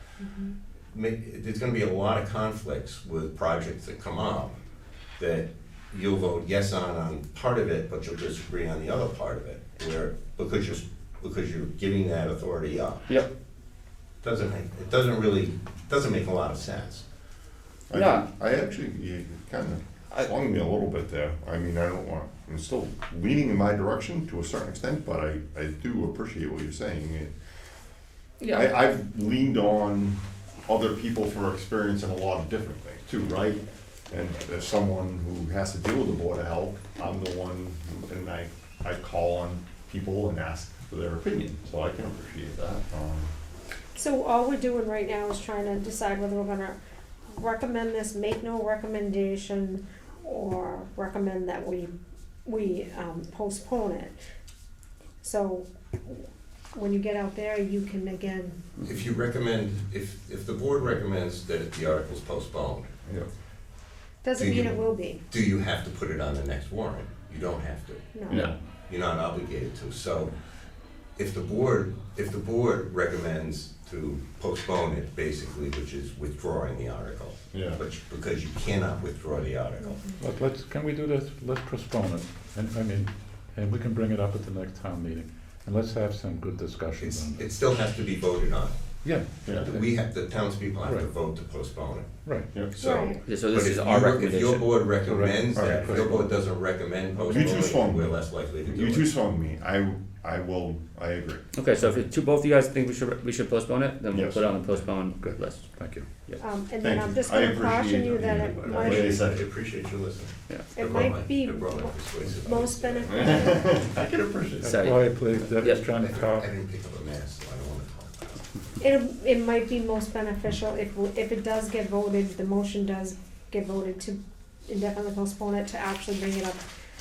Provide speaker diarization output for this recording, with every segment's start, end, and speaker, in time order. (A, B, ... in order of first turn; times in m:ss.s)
0:00.2-0:00.5 A
0:00.9-0:04.6 B
0:05.2-0:13.0 B
0:14.2-0:17.0 B
0:17.9-0:27.3 C
0:17.9-0:18.2 D
0:28.4-0:28.7 D
0:28.5-0:43.3 C
0:44.0-0:46.8 A
0:47.3-0:51.9 A
0:52.4-0:54.1 A
0:55.2-0:58.6 A
0:58.8-1:02.9 B
1:04.2-1:05.2 A
1:04.4-1:08.2 B
1:08.1-1:08.4 A
1:08.3-1:08.6 C
1:08.9-1:10.3 B
1:11.2-1:20.0 B
1:17.5-1:17.8 C
1:19.8-1:20.2 A
1:20.2-1:27.5 E
1:27.0-1:28.8 B
1:29.0-1:29.9 E
1:29.6-1:32.1 B
1:32.7-1:39.1 B
1:32.8-1:33.2 A
1:33.2-1:34.7 D
1:35.0-1:36.2 E
1:35.6-1:35.9 C
1:37.3-1:41.4 C
1:41.6-1:45.7 D
1:44.1-1:44.4 C
1:45.2-1:46.1 E
1:46.4-1:49.2 A
1:46.8-1:49.4 C
1:48.6-1:53.6 B
1:50.7-1:53.7 A
1:53.0-1:54.9 C
1:54.6-1:56.5 E
1:54.6-1:55.0 D
1:55.4-1:58.4 B
1:58.8-2:06.6 A